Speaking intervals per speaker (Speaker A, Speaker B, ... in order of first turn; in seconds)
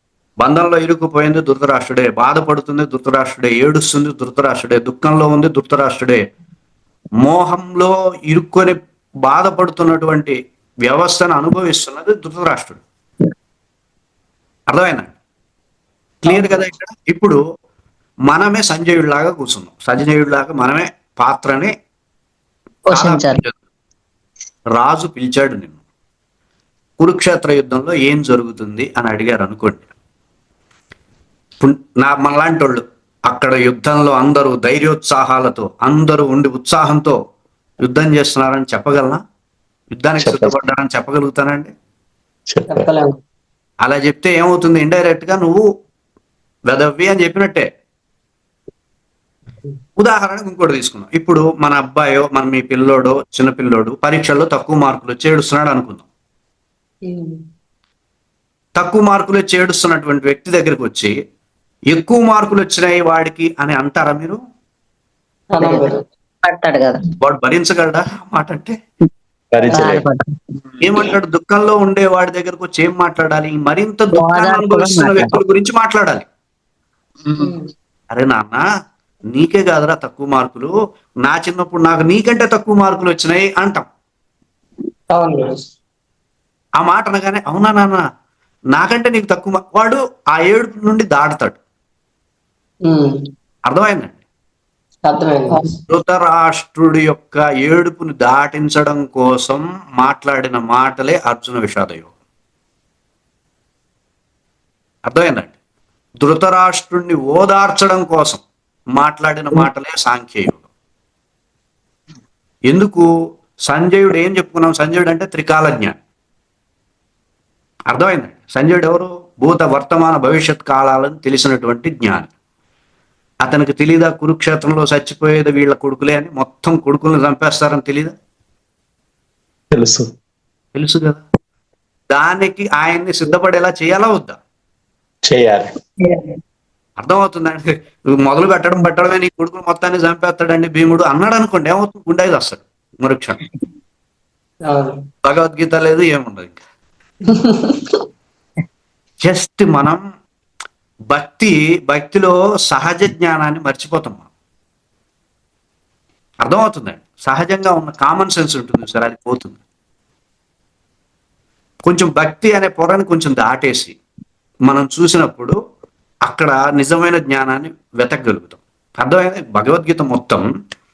Speaker A: 0.4-6.2, 7.2-12.8, 14.7-15.1, 16.2-17.4, 18.3-21.7, 22.9-23.5, 24.8-25.8, 27.0-29.9, 31.6-37.2, 37.8-39.2, 40.0-41.7, 43.8-45.6, 46.7-47.7, 50.0-56.0, 58.8-61.1, 61.9-64.4, 67.2-68.8, 70.8-76.3, 78.1-78.6, 79.3-80.7, 81.3-83.8, 86.8-88.0, 88.7-91.6, 93.7-94.2, 95.9-102.1, 105.1-105.5, 106.2-108.4, 109.0-110.6, 112.7-113.1, 113.7-116.0, 117.9-122.3, 123.4-128.1, 130.8-131.2, 132.1-134.4, 137.0-143.4, 145.2-146.6, 149.2-150.0, 151.1-154.3, 156.4-159.6, 161.8-164.0, 164.7-165.6, 166.3-170.4
Speaker B: 16.3-16.6, 22.9-23.4, 65.6-65.9, 66.4-67.1, 69.7-70.4, 74.1-75.4, 136.0-136.4
Speaker C: 40.2-40.7, 42.5-42.9, 69.5-70.1, 129.7-130.1, 135.3-135.7
Speaker D: 42.7-43.2, 57.1-57.4, 65.5-66.0, 77.4-77.7, 85.1-85.7, 92.9-93.2, 95.1-95.7, 144.7-145.0, 147.3-148.0